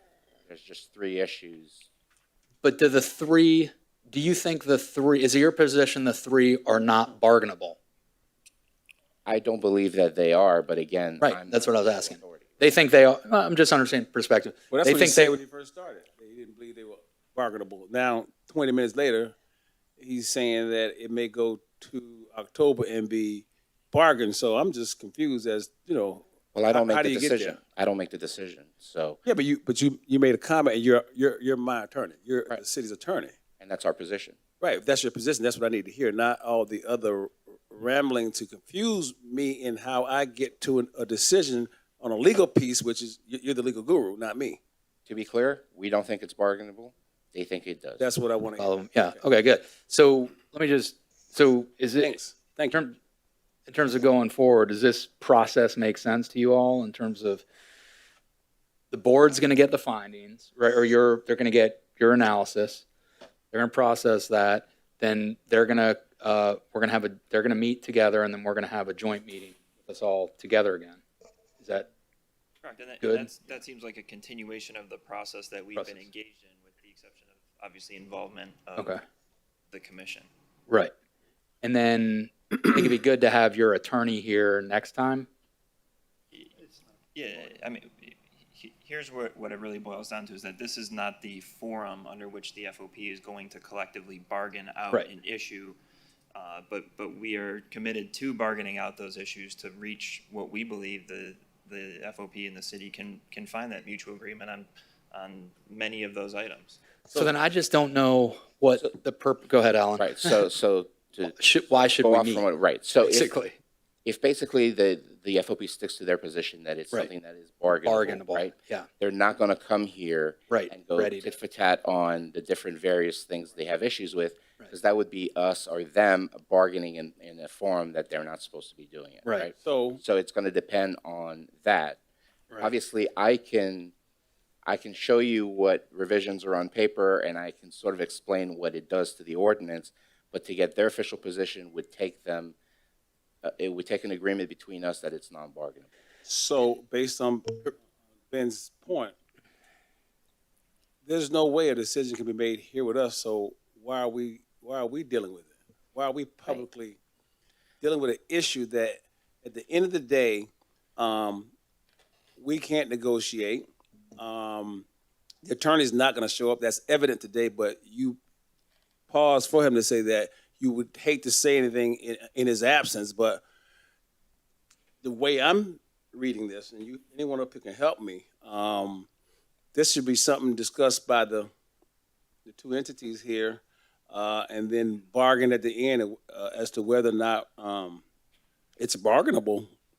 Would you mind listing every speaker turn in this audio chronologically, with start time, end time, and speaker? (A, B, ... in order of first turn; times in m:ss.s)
0:00.5-0:01.9 A
0:02.6-0:07.8 B
0:09.2-0:12.6 A
0:11.2-0:15.4 B
0:14.7-0:19.3 C
0:20.0-0:27.6 C
0:26.5-0:29.2 A
0:29.2-0:33.3 C
0:33.6-0:34.4 A
0:34.6-0:44.6 C
0:45.0-0:48.0 A
0:48.0-0:48.7 C
0:48.6-0:52.1 B
0:52.0-0:52.8 C
0:52.7-0:53.0 B
0:53.7-0:57.4 B
0:58.9-1:02.8 B
1:03.5-1:11.0 B
1:11.6-1:11.9 B
1:12.6-1:19.0 D
1:13.0-1:13.3 B
1:15.8-1:16.0 B
1:19.7-1:20.3 D
1:21.6-1:25.3 B
1:27.1-1:35.8 D
1:36.3-1:46.8 D
1:47.1-1:50.4 B
1:50.0-1:51.3 A
1:51.3-1:52.4 B
1:52.0-1:53.3 A
1:53.0-1:53.6 B
1:54.0-2:12.0 A
1:57.7-1:58.9 B
2:00.5-2:01.3 B
2:09.6-2:10.0 C
2:12.6-2:13.9 A
2:14.6-2:22.6 A
2:23.4-2:25.9 A
2:26.2-2:27.7 C
2:28.3-2:29.1 C
2:31.0-2:37.0 C
2:37.8-2:41.5 C
2:42.4-2:44.8 C
2:45.4-2:48.2 C
2:49.1-2:53.4 C
2:55.0-2:59.1 C
2:59.7-3:01.5 C
3:02.4-3:08.0 C
3:08.8-3:09.7 C